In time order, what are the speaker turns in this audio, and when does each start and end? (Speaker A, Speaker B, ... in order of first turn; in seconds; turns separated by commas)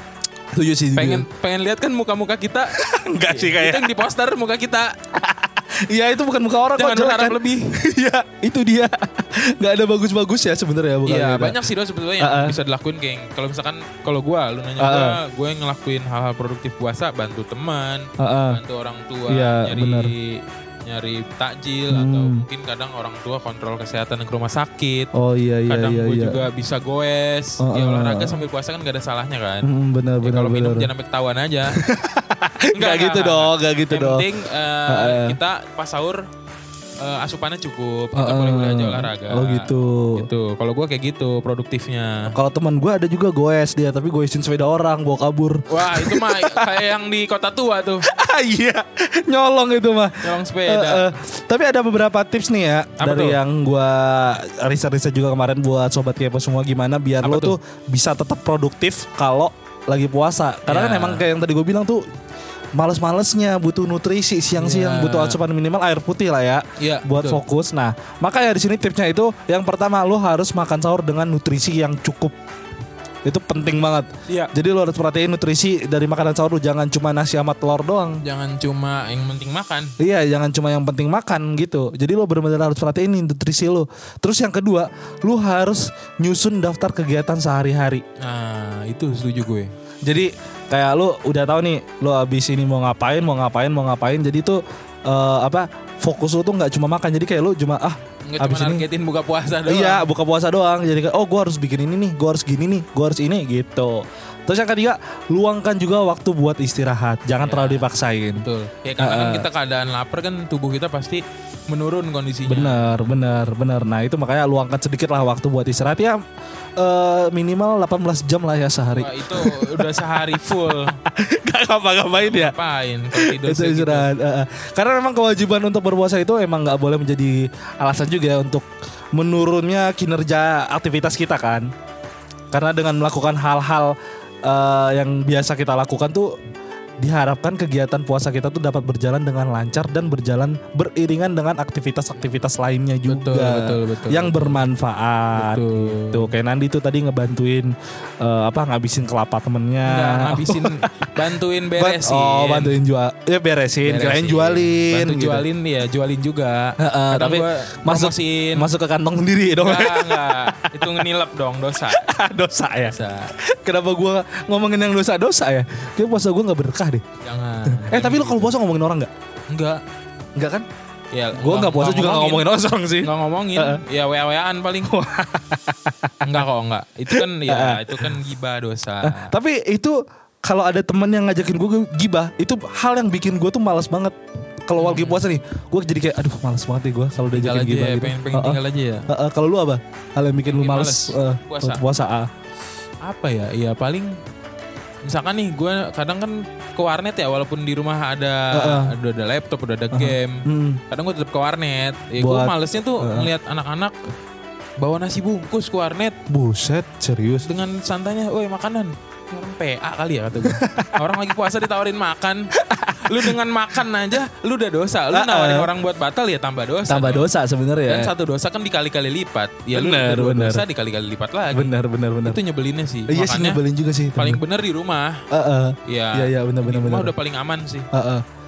Speaker A: 0.5-1.3, Speaker B: 0.9-5.0, Speaker A: 2.7-3.9, Speaker A: 5.2-11.6, Speaker B: 6.8-7.8, Speaker B: 11.1-25.1, Speaker A: 12.2-12.6, Speaker A: 14.8-15.2, Speaker A: 18.2-18.6, Speaker A: 19.3-20.1, Speaker A: 21.9-22.5, Speaker A: 25.1-26.4, Speaker B: 25.7-29.7, Speaker A: 27.6-28.4, Speaker A: 29.6-30.9, Speaker B: 30.2-31.8, Speaker A: 31.7-34.3, Speaker B: 32.7-36.2, Speaker A: 34.9-35.4, Speaker B: 37.0-42.4, Speaker A: 38.1-40.3, Speaker A: 42.3-46.9, Speaker B: 45.7-48.1, Speaker A: 48.1-62.0, Speaker B: 50.2-51.1, Speaker B: 53.0-53.4, Speaker B: 57.2-57.6, Speaker B: 60.7-61.3, Speaker A: 62.8-72.3, Speaker B: 64.6-65.4, Speaker B: 66.8-67.4, Speaker A: 73.2-78.2, Speaker B: 78.2-79.9, Speaker A: 80.0-88.0, Speaker B: 88.2-89.7, Speaker A: 90.0-98.9, Speaker B: 98.2-100.1, Speaker A: 99.7-108.5, Speaker B: 107.4-113.2, Speaker A: 109.0-109.5, Speaker A: 112.5-116.2, Speaker A: 116.8-119.9, Speaker B: 118.9-121.0, Speaker A: 120.7-122.6, Speaker B: 122.2-124.1, Speaker A: 123.1-131.7, Speaker A: 132.5-133.9, Speaker A: 134.4-136.4, Speaker A: 137.0-151.2, Speaker B: 143.1-144.7, Speaker B: 145.3-146.3, Speaker B: 149.8-152.8, Speaker A: 151.8-155.4, Speaker B: 153.8-158.7, Speaker A: 156.8-161.1, Speaker B: 159.6-162.1, Speaker A: 161.9-167.0, Speaker B: 162.9-163.3, Speaker B: 167.2-168.6, Speaker A: 167.7-169.1, Speaker B: 169.5-169.8, Speaker A: 170.4-170.7, Speaker B: 171.1-172.5, Speaker A: 171.3-173.8, Speaker B: 173.0-174.9, Speaker A: 174.8-176.4, Speaker B: 176.2-179.3, Speaker A: 177.1-178.1, Speaker A: 179.0-192.3, Speaker B: 184.8-185.2, Speaker B: 187.3-189.1, Speaker B: 190.5-191.8, Speaker B: 193.0-194.2, Speaker B: 195.0-204.0, Speaker A: 198.5-199.0, Speaker A: 199.9-200.8, Speaker A: 202.2-203.3, Speaker B: 204.8-206.2, Speaker A: 206.3-207.5, Speaker B: 207.4-212.4, Speaker A: 210.3-211.0, Speaker A: 212.6-213.4, Speaker B: 213.0-217.3, Speaker A: 215.1-215.7, Speaker A: 216.9-218.1, Speaker B: 217.8-223.6, Speaker A: 219.7-220.7, Speaker A: 221.5-222.4, Speaker A: 223.1-224.4, Speaker B: 224.2-225.2, Speaker A: 225.3-227.1, Speaker B: 225.9-227.9, Speaker A: 227.9-228.2